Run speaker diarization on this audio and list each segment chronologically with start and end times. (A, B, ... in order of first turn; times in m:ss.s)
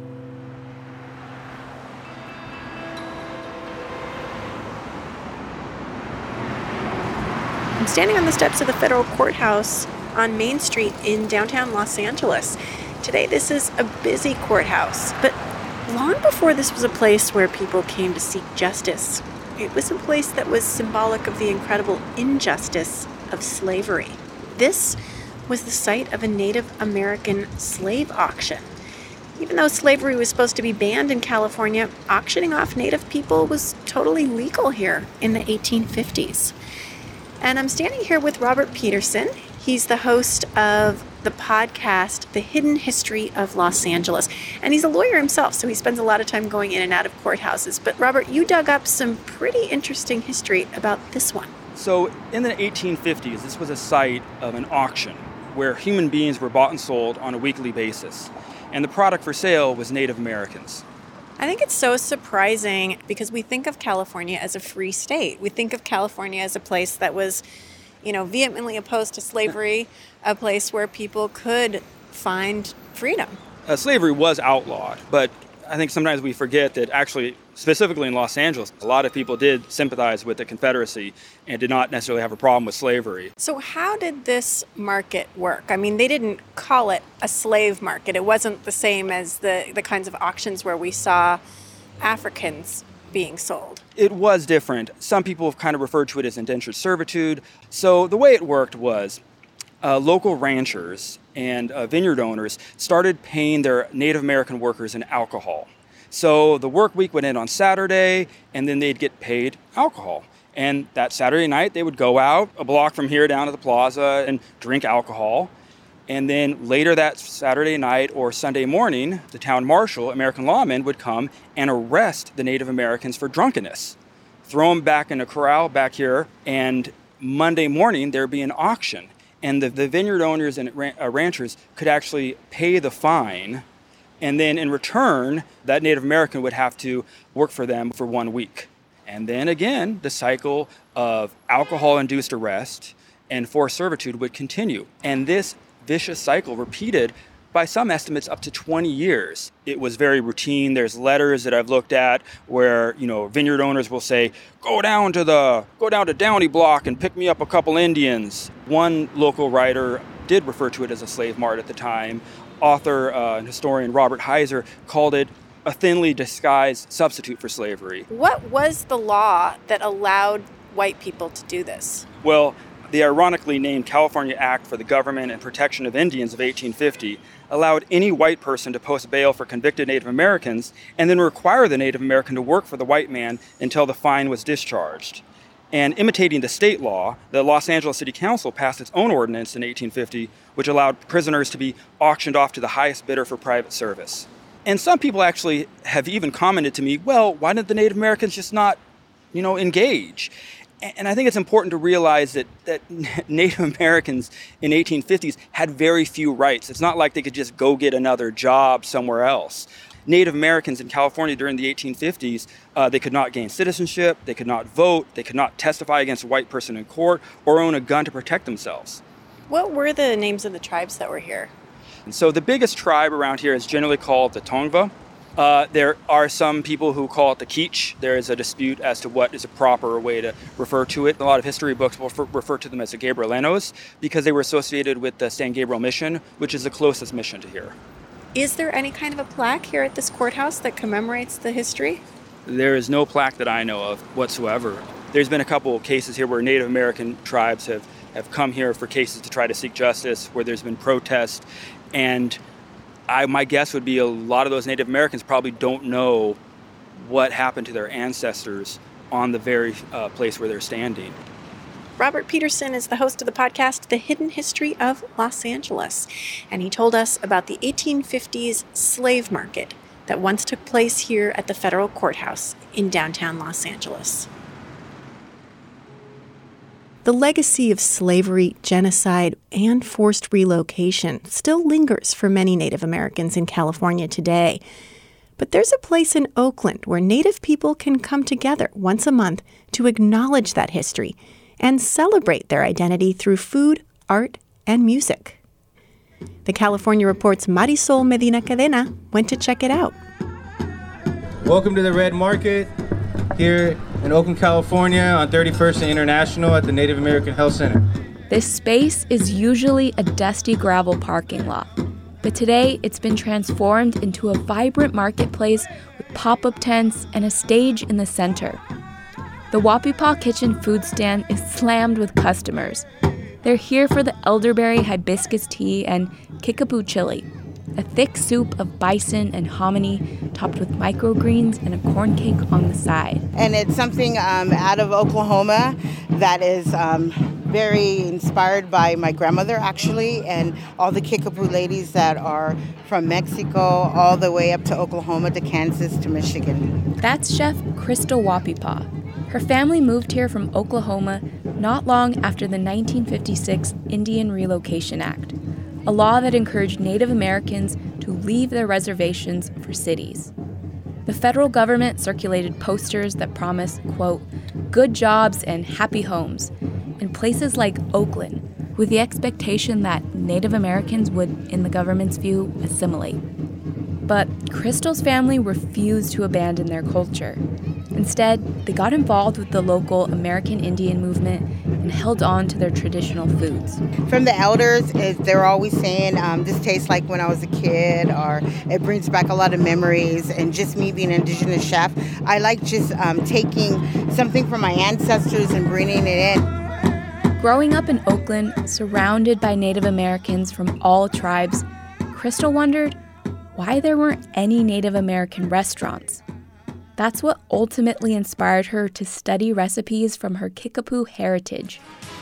0:07.8-0:28.7 A
0:29.4-0:36.5 A
0:37.4-0:51.5 A
0:51.7-1:00.8 B
1:01.4-1:07.4 A
1:08.0-1:13.4 A
1:13.6-1:23.3 B
1:23.4-1:31.4 A
1:32.0-1:33.8 A
1:34.0-1:39.2 B
1:39.8-1:55.5 B
1:56.1-2:13.6 B
2:14.2-2:48.1 B
2:48.1-2:52.0 A
2:52.2-3:18.8 B
3:19.3-3:39.0 B
3:39.5-3:41.5 A
3:42.0-3:57.8 B
3:58.3-4:02.0 A
4:02.4-4:12.4 B
4:13.1-4:16.4 B
4:17.0-4:21.2 B
4:22.0-4:34.3 A
4:37.0-4:44.6 A
4:45.4-4:55.4 A
4:56.4-5:00.0 A
5:01.4-5:02.7 C
5:03.4-5:07.8 C
5:08.3-5:18.6 D
5:19.5-5:22.8 D
5:23.4-5:33.2 D
5:33.3-5:46.7 E
5:47.0-6:00.3 D
6:01.0-6:13.2 D
6:14.1-6:17.4 D
6:17.9-6:23.8 D
6:24.0-6:36.4 E
6:37.4-6:43.0 D
6:43.5-6:46.2 D
6:47.0-6:51.8 D